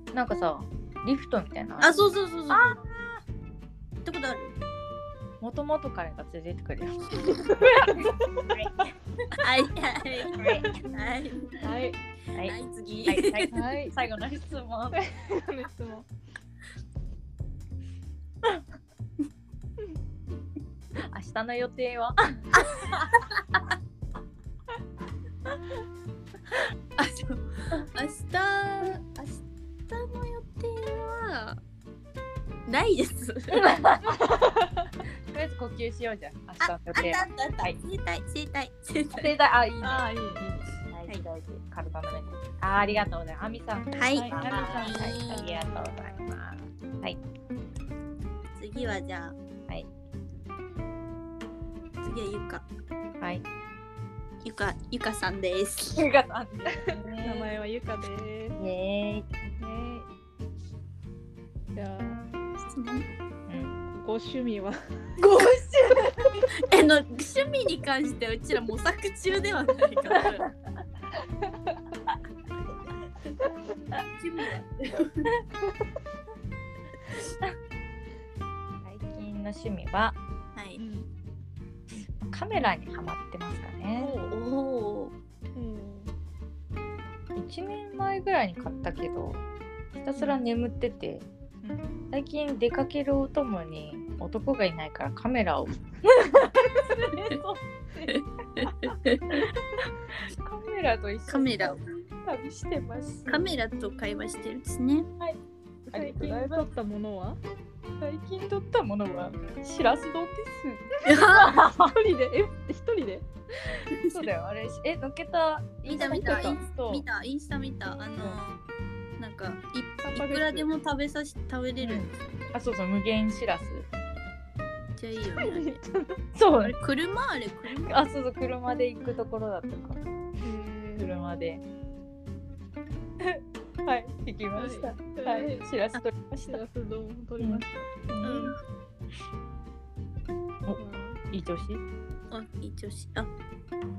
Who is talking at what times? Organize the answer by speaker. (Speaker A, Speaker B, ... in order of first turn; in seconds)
Speaker A: 0.1-3.2, 5.4-8.8, 10.4-10.7, 13.1-15.0, 21.0-23.1, 33.5-34.3, 35.3-37.8, 39.1-40.1, 40.9-47.2, 55.9-57.6, 58.6-59.3, 63.5-63.7, 65.2-66.3, 70.1-70.4, 78.8-80.2, 82.2-84.1, 87.3-91.3, 92.1-97.6, 100.3-103.4, 105.9-106.7, 108.0-111.9, 114.0-117.0, 121.8-123.9, 126.3-126.8, 127.9-130.0, 131.0-131.6, 133.2-136.6, 137.4-138.5, 141.3-141.8
Speaker B: 1.8-2.8, 4.0-4.5, 9.4-11.5, 12.4-13.5, 27.0-31.6, 32.7-33.6, 36.6-39.3, 43.9-45.5, 48.5-49.4, 52.0-52.7, 54.4-56.0, 62.6-63.1, 66.6-70.5, 74.1-75.3, 80.5-80.8, 84.3-85.1, 98.1-99.4, 101.3-101.8, 103.3-105.1, 111.0-111.5, 115.8-118.6, 119.2-122.1, 125.0-125.8, 126.6-128.0, 138.2-138.6, 142.3-143.3
Speaker C: 7.4-7.9, 10.5-10.9, 11.6-12.0, 13.5-13.9, 14.9-16.1, 34.1-34.9, 39.8-40.7, 44.1-46.4, 56.7-58.6, 59.6-60.1, 61.7-62.2, 63.9-64.8, 80.8-81.1, 84.0-84.4, 85.5-86.1, 90.2-90.4, 91.6-92.0, 105.9-107.4, 111.1-113.3, 120.0-120.7, 125.2-126.2, 130.4-131.2, 134.5-135.7, 136.5-137.9, 140.8-141.2